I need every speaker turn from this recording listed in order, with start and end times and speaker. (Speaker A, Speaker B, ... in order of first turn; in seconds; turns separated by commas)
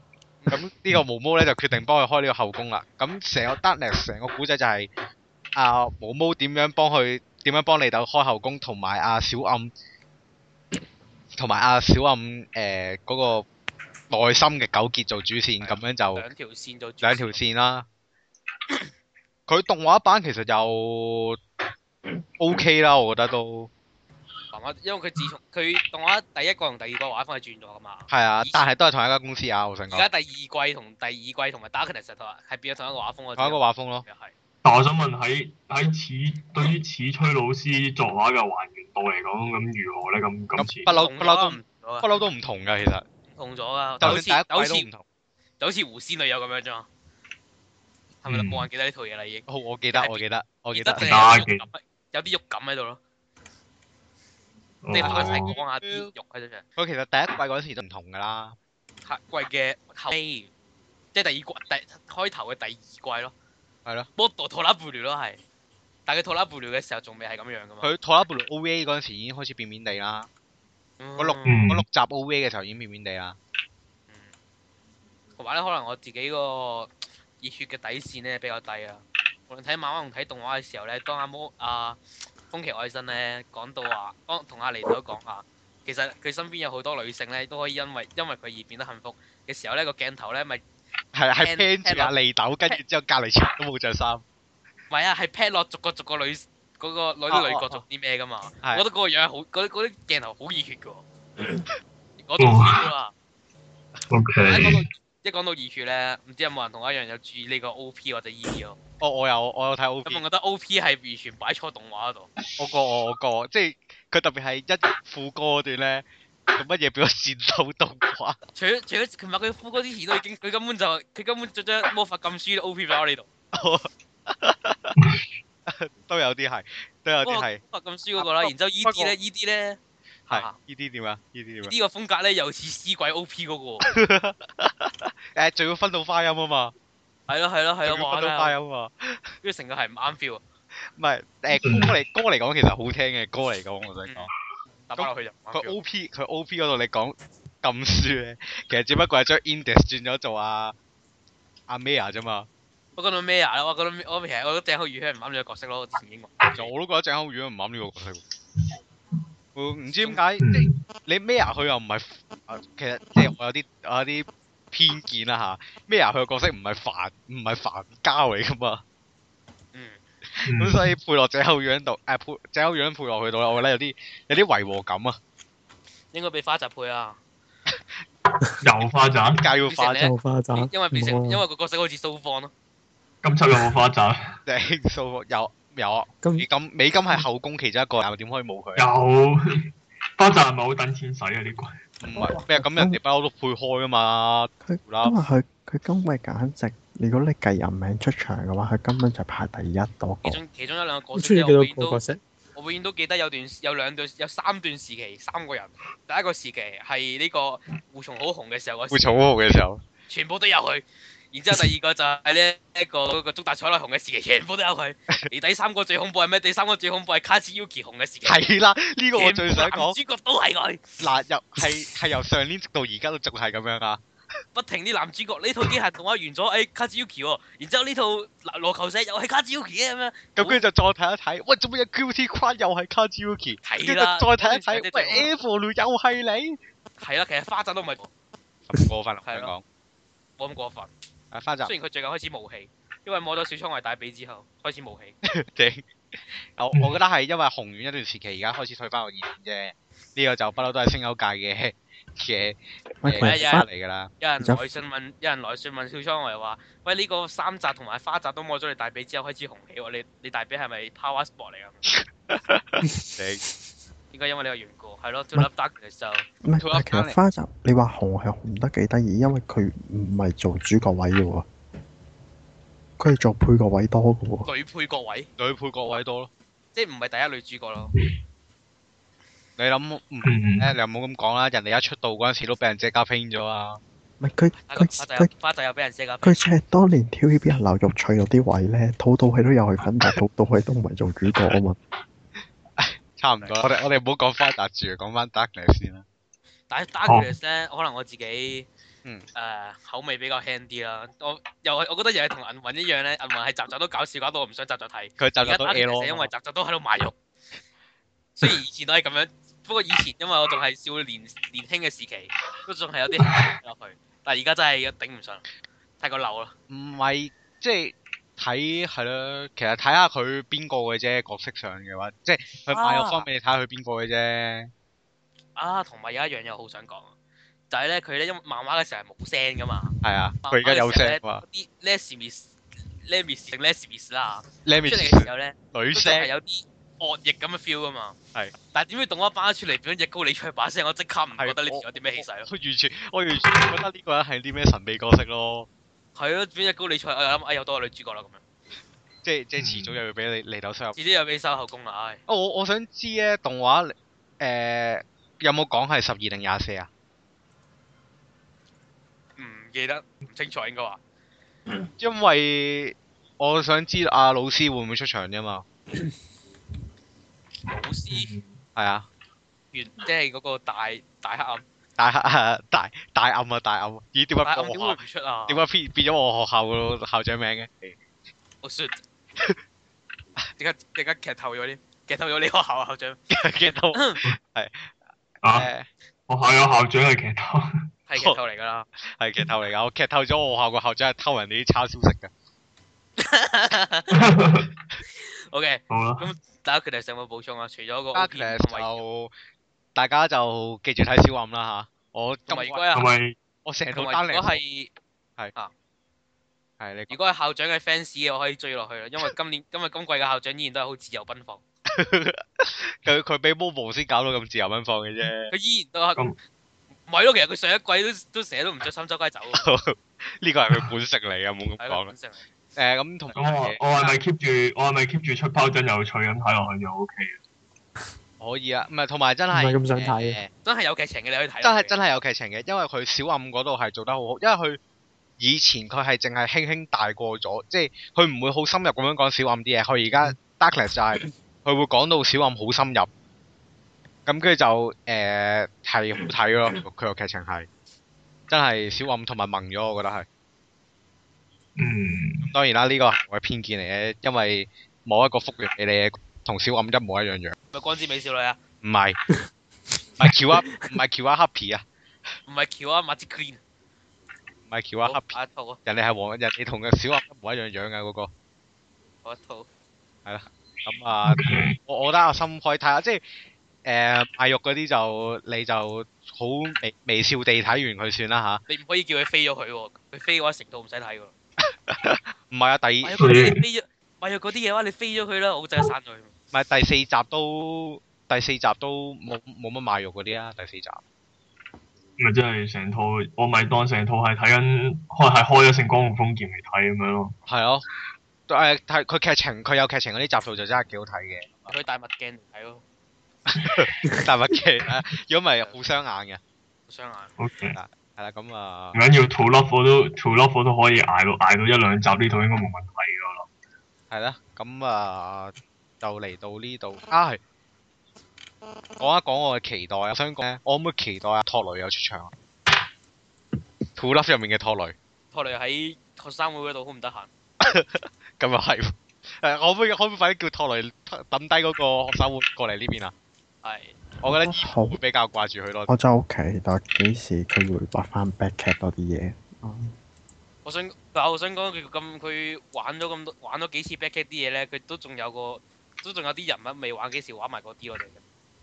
Speaker A: 0.5-4.9, Speaker A: 5.5-9.7, Speaker A: 11.3-13.4, Speaker A: 14.1-16.2, Speaker B: 15.6-17.4, Speaker A: 17.0-17.9, Speaker A: 19.5-21.4, Speaker A: 22.4-23.7, Speaker B: 24.5-28.6, Speaker A: 28.1-30.1, Speaker B: 29.9-34.3, Speaker A: 33.4-34.0, Speaker C: 34.6-40.9, Speaker A: 40.6-43.0, Speaker B: 40.9-42.2, Speaker B: 43.3-44.9, Speaker A: 44.0-45.0, Speaker B: 45.6-46.9, Speaker B: 48.2-53.0, Speaker C: 48.2-48.7, Speaker A: 49.5-51.4, Speaker C: 51.0-51.7, Speaker C: 54.8-55.5, Speaker B: 54.9-56.6, Speaker A: 55.0-56.1, Speaker A: 56.8-58.5, Speaker B: 59.0-60.5, Speaker B: 61.1-63.3, Speaker B: 64.2-65.4, Speaker B: 66.1-67.9, Speaker A: 67.8-70.3, Speaker B: 71.0-71.6, Speaker A: 71.2-73.4, Speaker C: 71.4-71.8, Speaker B: 75.4-82.0, Speaker B: 82.5-90.6, Speaker A: 91.1-94.2, Speaker B: 91.4-92.1, Speaker B: 94.9-101.0, Speaker A: 97.3-97.8, Speaker B: 102.2-103.1, Speaker C: 102.4-102.9, Speaker C: 104.1-104.8, Speaker B: 104.4-108.8, Speaker A: 109.0-110.2, Speaker B: 110.0-112.3, Speaker A: 112.6-118.4, Speaker B: 118.5-123.3, Speaker A: 123.5-124.9, Speaker C: 125.0-125.2, Speaker A: 125.7-127.6, Speaker B: 127.2-130.6, Speaker A: 128.2-129.1, Speaker A: 130.3-131.7, Speaker B: 131.6-133.9, Speaker A: 133.8-136.7, Speaker B: 137.3-138.5, Speaker A: 137.8-139.3, Speaker B: 139.4-140.4, Speaker A: 140.9-144.3, Speaker C: 141.5-141.9, Speaker B: 144.1-144.3, Speaker B: 144.9-145.8, Speaker A: 145.0-150.7, Speaker A: 151.7-152.5, Speaker B: 152.9-156.7, Speaker A: 156.5-158.2, Speaker A: 159.5-168.8, Speaker C: 160.4-160.8, Speaker B: 169.7-170.0, Speaker A: 170.3-175.2, Speaker C: 170.4-170.9, Speaker B: 176.1-177.2, Speaker C: 178.6-179.5, Speaker A: 179.4-180.1, Speaker B: 179.7-182.5, Speaker D: 180.0-181.4, Speaker C: 183.2-184.3, Speaker A: 184.4-188.9, Speaker C: 188.8-191.8, Speaker A: 192.0-195.2, Speaker E: 192.1-193.0, Speaker E: 194.6-200.4, Speaker B: 200.2-202.0, Speaker D: 201.1-202.2, Speaker B: 202.5-209.2, Speaker A: 208.9-209.8, Speaker B: 210.1-218.5, Speaker A: 218.2-220.0, Speaker B: 219.1-220.8, Speaker A: 221.0-224.0, Speaker B: 224.5-230.6, Speaker A: 230.3-236.6, Speaker B: 233.6-235.3, Speaker B: 237.0-238.1, Speaker A: 238.7-239.6, Speaker B: 239.2-239.5, Speaker B: 240.4-240.9, Speaker A: 241.3-241.7, Speaker B: 241.6-245.2, Speaker A: 245.2-245.8, Speaker A: 246.4-254.1, Speaker C: 246.7-247.0, Speaker E: 253.0-253.7, Speaker B: 253.2-253.7, Speaker B: 254.2-261.8, Speaker A: 261.9-263.4, Speaker B: 264.1-266.2, Speaker E: 266.4-271.4, Speaker A: 266.6-267.2, Speaker E: 273.0-274.5, Speaker B: 274.4-275.3, Speaker A: 275.4-276.3, Speaker B: 276.7-277.9, Speaker A: 279.6-283.8, Speaker C: 280.2-280.7, Speaker E: 284.2-285.3, Speaker B: 284.6-286.4, Speaker E: 286.2-291.8, Speaker A: 292.8-296.0, Speaker B: 296.7-298.7, Speaker C: 297.1-297.3, Speaker B: 299.3-307.1, Speaker A: 305.2-306.3, Speaker B: 308.4-315.4, Speaker C: 313.3-313.5, Speaker B: 316.0-316.5, Speaker A: 316.7-324.7, Speaker B: 322.7-323.2, Speaker B: 325.6-327.1, Speaker B: 327.7-332.5, Speaker A: 330.0-331.4, Speaker B: 333.0-338.1, Speaker A: 334.6-336.3, Speaker B: 338.7-342.5, Speaker A: 341.4-345.7, Speaker B: 346.1-348.4, Speaker A: 349.2-351.0, Speaker C: 349.6-350.0, Speaker B: 350.9-352.2, Speaker A: 352.3-356.9, Speaker B: 359.4-361.0, Speaker A: 362.0-365.6, Speaker B: 367.7-368.3, Speaker C: 368.1-368.6, Speaker A: 368.8-369.1, Speaker B: 369.7-371.6, Speaker A: 372.0-378.0, Speaker B: 374.4-375.6, Speaker B: 378.6-379.0, Speaker B: 380.6-383.2, Speaker A: 383.3-384.9, Speaker B: 383.9-384.2, Speaker C: 385.4-385.7, Speaker A: 385.5-385.9, Speaker C: 386.3-387.9, Speaker B: 388.1-388.9, Speaker A: 389.0-392.3, Speaker B: 393.2-394.2, Speaker C: 394.1-394.7, Speaker B: 395.1-399.0, Speaker C: 395.9-396.3, Speaker A: 398.1-399.3, Speaker A: 399.9-402.9, Speaker B: 402.5-403.1, Speaker C: 402.9-403.3, Speaker A: 403.6-404.6, Speaker B: 403.9-404.9, Speaker A: 406.8-407.1, Speaker B: 407.1-411.6, Speaker A: 411.9-415.5, Speaker B: 415.5-416.2, Speaker B: 417.1-419.6, Speaker A: 419.5-422.1, Speaker B: 421.8-422.4, Speaker A: 422.8-423.8, Speaker C: 423.3-427.4, Speaker B: 423.9-424.2, Speaker A: 428.4-430.5, Speaker D: 429.5-430.4, Speaker B: 430.6-431.9, Speaker A: 431.6-434.8, Speaker A: 435.4-443.1, Speaker A: 444.2-447.7, Speaker A: 448.5-450.3, Speaker C: 451.8-452.5, Speaker A: 452.5-457.6, Speaker B: 457.7-458.6, Speaker A: 458.8-459.2, Speaker A: 460.2-461.8, Speaker B: 462.4-463.6, Speaker A: 464.7-468.3, Speaker B: 465.0-465.8, Speaker B: 469.2-469.7, Speaker A: 470.2-473.2, Speaker C: 471.2-471.8, Speaker A: 473.8-478.6, Speaker B: 478.7-481.3, Speaker A: 481.6-483.4, Speaker B: 483.0-486.3, Speaker C: 483.2-483.6, Speaker A: 486.5-491.0, Speaker C: 492.2-497.3, Speaker A: 497.4-497.9, Speaker A: 498.5-501.7, Speaker B: 501.7-502.8, Speaker A: 503.5-506.4, Speaker C: 503.6-503.9, Speaker B: 506.9-507.4, Speaker C: 507.4-507.8, Speaker A: 507.7-509.0, Speaker C: 508.9-513.5, Speaker A: 514.1-517.4, Speaker A: 519.0-522.3, Speaker A: 524.0-524.9, Speaker B: 525.3-527.3, Speaker A: 527.6-533.1, Speaker B: 533.6-533.9, Speaker A: 534.2-535.9, Speaker E: 534.3-535.0, Speaker E: 535.9-539.9, Speaker B: 540.6-548.2